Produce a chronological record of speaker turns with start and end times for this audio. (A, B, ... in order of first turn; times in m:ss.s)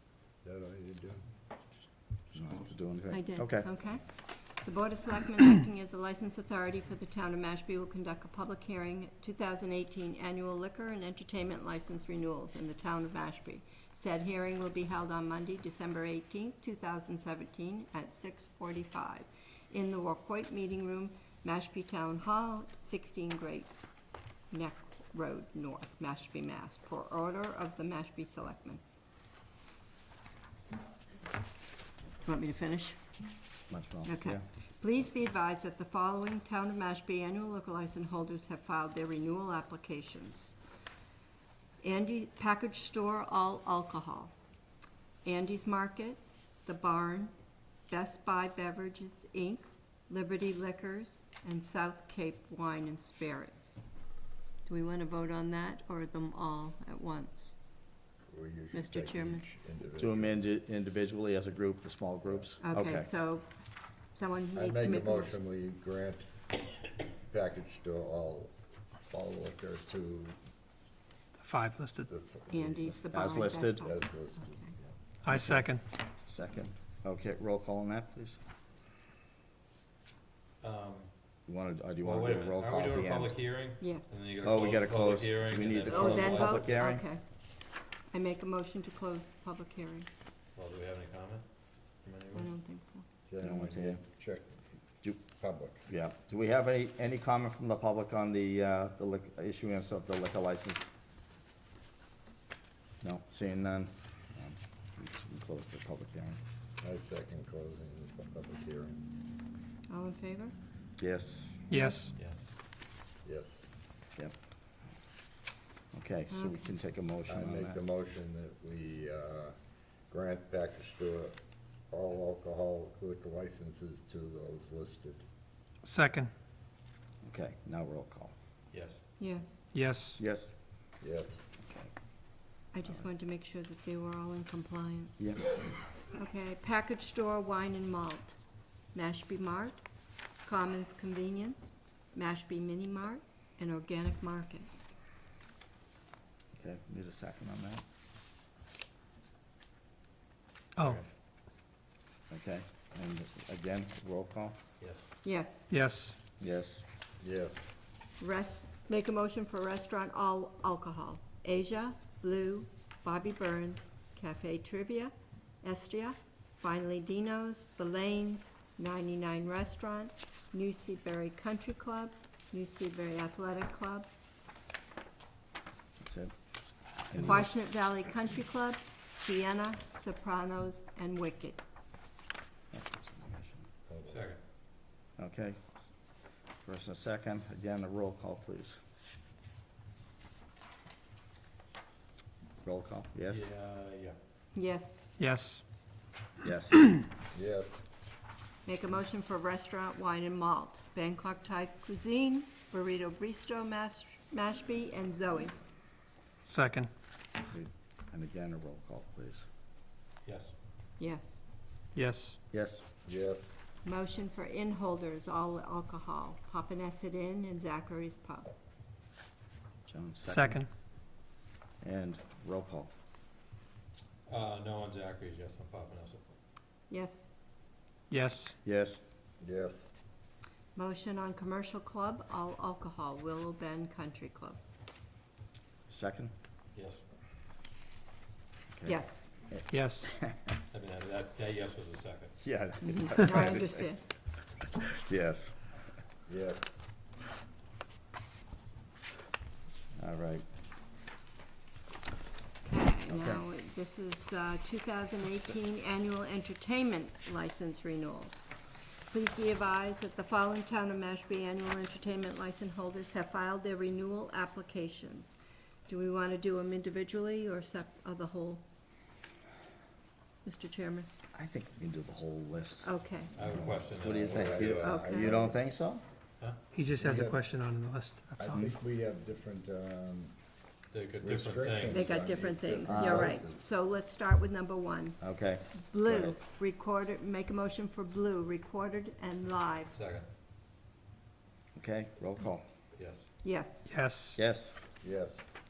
0:00.4-0:01.2 A
0:02.3-0:03.7 B
0:03.1-0:23.8 C
0:24.5-0:28.8 C
0:32.2-0:33.0 C
0:33.7-0:34.4 B
0:34.0-0:40.5 C
0:41.8-0:44.3 C
0:45.2-0:47.3 C
0:47.9-0:53.8 C
0:54.6-0:57.5 C
0:58.3-1:00.4 A
0:58.7-0:59.4 C
0:59.9-1:03.1 B
1:02.6-1:03.5 C
1:04.1-1:05.4 C
1:04.5-1:06.2 A
1:07.3-1:08.5 A
1:09.1-1:10.4 A
1:11.4-1:12.1 D
1:12.1-1:13.0 A
1:12.5-1:14.7 C
1:13.1-1:13.9 B
1:13.8-1:15.0 A
1:15.2-1:15.8 D
1:16.2-1:18.4 B
1:20.6-1:21.4 E
1:21.4-1:23.4 B
1:22.0-1:26.8 E
1:23.8-1:24.2 C
1:24.4-1:27.0 B
1:25.9-1:27.2 C
1:28.1-1:30.1 C
1:30.5-1:32.5 E
1:32.3-1:33.0 C
1:33.3-1:34.6 A
1:33.4-1:34.0 B
1:35.3-1:35.8 A
1:35.9-1:40.9 B
1:43.0-1:46.4 B
1:46.8-1:49.0 A
1:49.9-1:50.5 C
1:51.0-1:51.6 B
1:51.7-1:52.2 D
1:51.8-1:52.1 C
1:53.2-1:53.6 A
1:55.9-1:57.8 B
1:56.3-1:56.8 C
1:57.3-1:59.6 A
2:00.1-2:01.4 A
2:01.9-2:05.2 A
2:05.8-2:06.3 D
2:07.2-2:08.3 B
2:08.7-2:09.0 E
2:09.2-2:09.6 C
2:09.7-2:10.2 D
2:10.2-2:10.5 B
2:11.0-2:11.4 A
2:11.6-2:11.9 B
2:12.7-2:15.3 C
2:15.2-2:15.5 B
2:16.1-2:18.4 C
2:18.9-2:19.8 C
2:20.4-2:24.7 C
2:26.5-2:27.8 B
2:30.8-2:31.1 E
2:32.3-2:34.6 B
2:34.8-2:35.0 E
2:35.2-2:35.7 C
2:35.7-2:36.1 D
2:36.4-2:36.8 B
2:37.2-2:37.6 A
2:38.2-2:54.1 C
2:56.0-2:56.3 B
2:57.0-2:57.5 B
2:57.2-3:01.6 C
3:02.7-3:03.7 B
3:03.9-3:04.3 A
3:04.0-3:04.4 E
3:05.2-3:05.9 B
3:06.6-3:08.8 B
3:12.6-3:13.4 B
3:13.3-3:14.2 E
3:14.5-3:15.0 C
3:15.2-3:15.6 D
3:16.4-3:16.9 B
3:17.3-3:17.8 A
3:18.6-3:25.7 C
3:26.4-3:26.9 D
3:27.5-3:29.4 B
3:30.2-3:30.5 E
3:31.0-3:31.4 C
3:31.9-3:32.4 D
3:32.5-3:32.8 B
3:33.0-3:33.5 A
3:33.8-3:38.5 C
3:39.8-3:40.6 B
3:40.2-3:40.7 D
3:41.8-3:42.9 B
3:44.3-3:46.3 E
3:46.9-3:47.3 C
3:48.1-3:48.5 D
3:48.6-3:49.0 B
3:49.4-3:49.9 A
3:50.7-3:54.6 C
3:55.9-3:56.3 B
3:56.7-3:57.0 E
3:58.7-4:00.6 B
3:58.8-3:59.2 C
3:59.7-4:00.1 D
4:00.7-4:02.4 E
4:02.4-4:03.9 B
4:02.8-4:04.0 C
4:04.7-4:05.7 B
4:06.3-4:06.8 A
4:10.0-4:10.4 B
4:12.6-4:18.4 C
4:13.1-4:13.4 B
4:19.1-4:25.4 C
4:25.9-4:28.6 C
4:30.4-4:31.1 C
4:31.3-4:36.0 B
4:32.8-4:33.3 C
4:33.3-4:35.0 E
4:34.2-4:35.6 A
4:34.7-4:35.6 C
4:36.7-4:38.6 D
4:37.0-4:37.5 A
4:38.4-4:40.3 A
4:40.9-4:42.1 E
4:41.2-4:43.6 A
4:41.9-4:45.2 C
4:42.9-4:43.4 B
4:45.2-4:46.3 B
4:45.7-4:49.9 C
4:49.9-4:50.2 E
4:51.7-4:52.7 B
4:52.9-4:53.2 E
4:53.4-4:53.9 C
4:53.9-4:54.4 D
4:54.4-4:54.7 B
4:55.0-4:55.4 A